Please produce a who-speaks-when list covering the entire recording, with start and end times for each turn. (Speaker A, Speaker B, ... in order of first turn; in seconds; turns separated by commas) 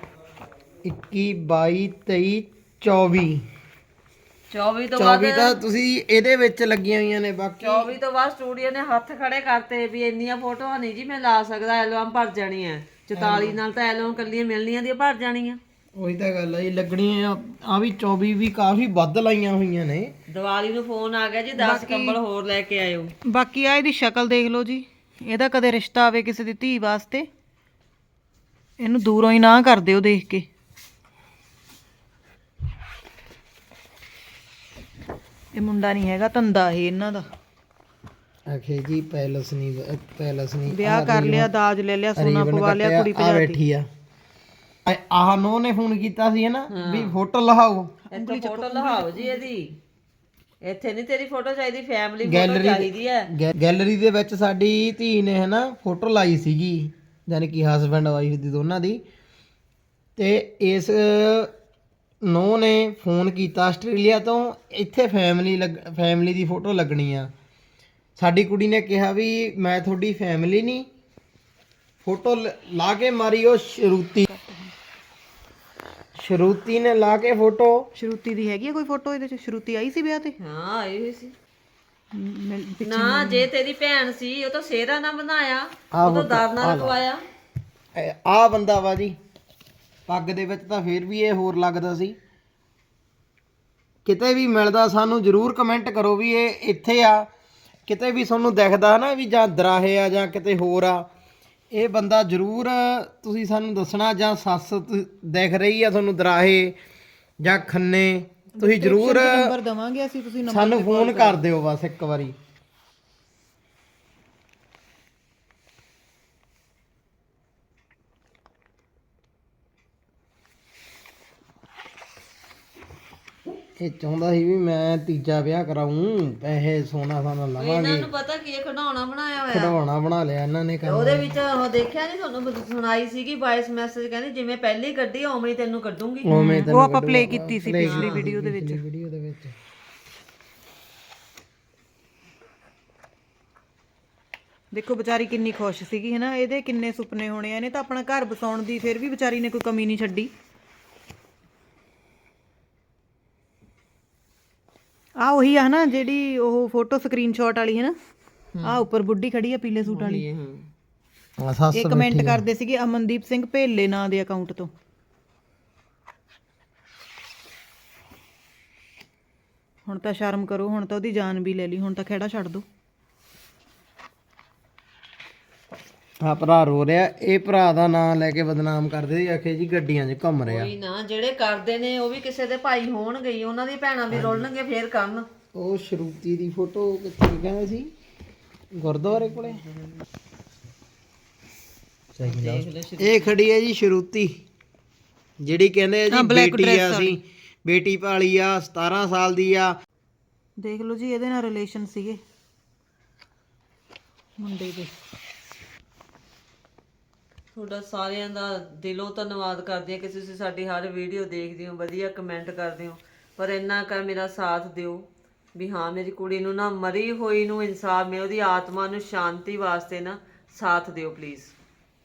Speaker A: 0.8-3.4, Speaker B: 4.5-5.6, Speaker A: 5.0-7.9, Speaker B: 7.6-15.6, Speaker A: 13.1-13.6, Speaker A: 15.9-20.1, Speaker B: 20.3-23.1, Speaker C: 21.5-22.2, Speaker C: 23.3-27.3, Speaker C: 28.8-30.5, Speaker C: 35.5-37.3, Speaker A: 38.5-41.5, Speaker C: 40.7-43.6, Speaker A: 42.1-43.9, Speaker A: 44.8-48.0, Speaker B: 46.7-47.2, Speaker C: 48.1-49.4, Speaker B: 48.1-49.8, Speaker B: 50.6-53.3, Speaker A: 52.2-59.0, Speaker A: 60.2-61.5, Speaker A: 62.2-67.3, Speaker A: 68.2-70.9, Speaker A: 72.0-74.3, Speaker C: 74.3-74.7, Speaker A: 76.2-77.9, Speaker C: 77.9-80.3, Speaker B: 80.4-81.3, Speaker C: 82.1-83.5, Speaker B: 82.8-87.2, Speaker A: 85.9-87.0, Speaker A: 88.0-89.2, Speaker A: 90.1-92.2, Speaker A: 94.0-97.3, Speaker A: 97.9-101.0, Speaker A: 101.7-106.7, Speaker A: 107.4-109.5, Speaker C: 108.5-111.4, Speaker A: 110.5-112.3, Speaker A: 123.8-128.1, Speaker B: 127.6-129.8, Speaker A: 129.5-131.3, Speaker B: 130.8-136.3, Speaker A: 136.2-139.5, Speaker C: 136.3-138.8, Speaker B: 137.8-138.2, Speaker C: 144.7-150.3, Speaker C: 155.2-157.9, Speaker B: 158.5-158.8, Speaker C: 158.6-160.2, Speaker B: 159.8-160.7, Speaker A: 161.4-162.4, Speaker C: 161.7-164.7, Speaker C: 169.9-172.6, Speaker A: 176.2-180.7, Speaker B: 180.4-185.3, Speaker A: 184.1-184.5, Speaker A: 185.5-187.9, Speaker A: 188.7-189.6, Speaker B: 189.2-189.7, Speaker A: 192.1-194.3, Speaker B: 192.2-193.3, Speaker A: 195.4-199.7, Speaker C: 196.1-197.2, Speaker C: 200.6-202.2, Speaker C: 204.4-204.9, Speaker B: 207.5-221.5